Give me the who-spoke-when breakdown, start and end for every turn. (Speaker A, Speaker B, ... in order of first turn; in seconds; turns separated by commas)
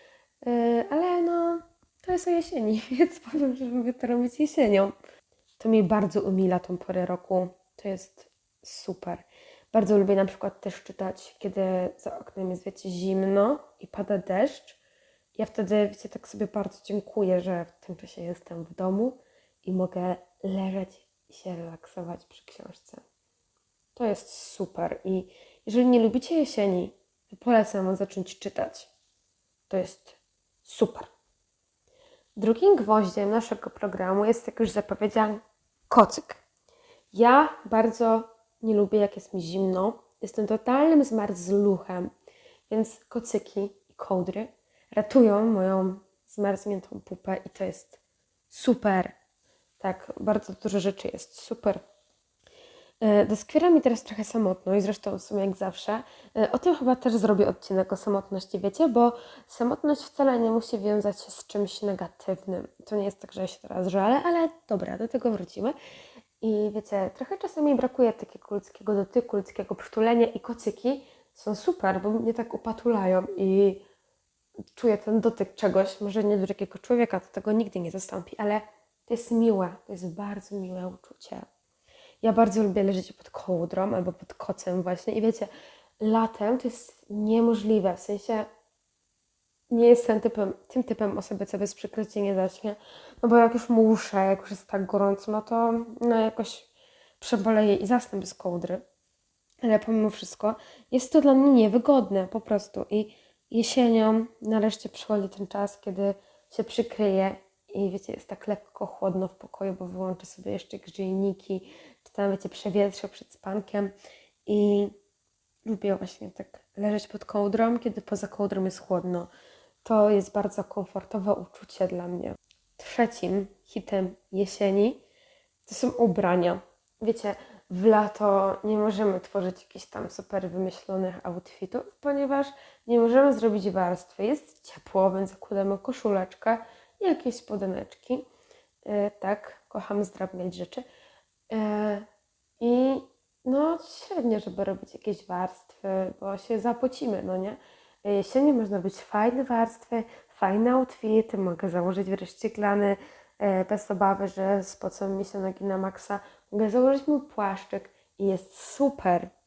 Speaker A: 0.4-4.9, Speaker A: 5.6-14.8, Speaker A: 15.3-23.0, Speaker A: 23.9-28.9, Speaker A: 29.7-31.1, Speaker A: 32.4-36.4, Speaker A: 37.1-42.1, Speaker A: 42.7-49.1, Speaker A: 49.8-51.8, Speaker A: 53.0-65.8, Speaker A: 66.4-73.8, Speaker A: 74.7-81.4, Speaker A: 82.2-88.5, Speaker A: 89.7-96.7, Speaker A: 97.2-98.8, Speaker A: 99.6-113.9, Speaker A: 114.5-114.9, Speaker A: 115.6-119.3, Speaker A: 119.8-125.0, Speaker A: 125.7-138.2, Speaker A: 138.8-140.8, Speaker A: 141.5-142.1, Speaker A: 142.6-159.3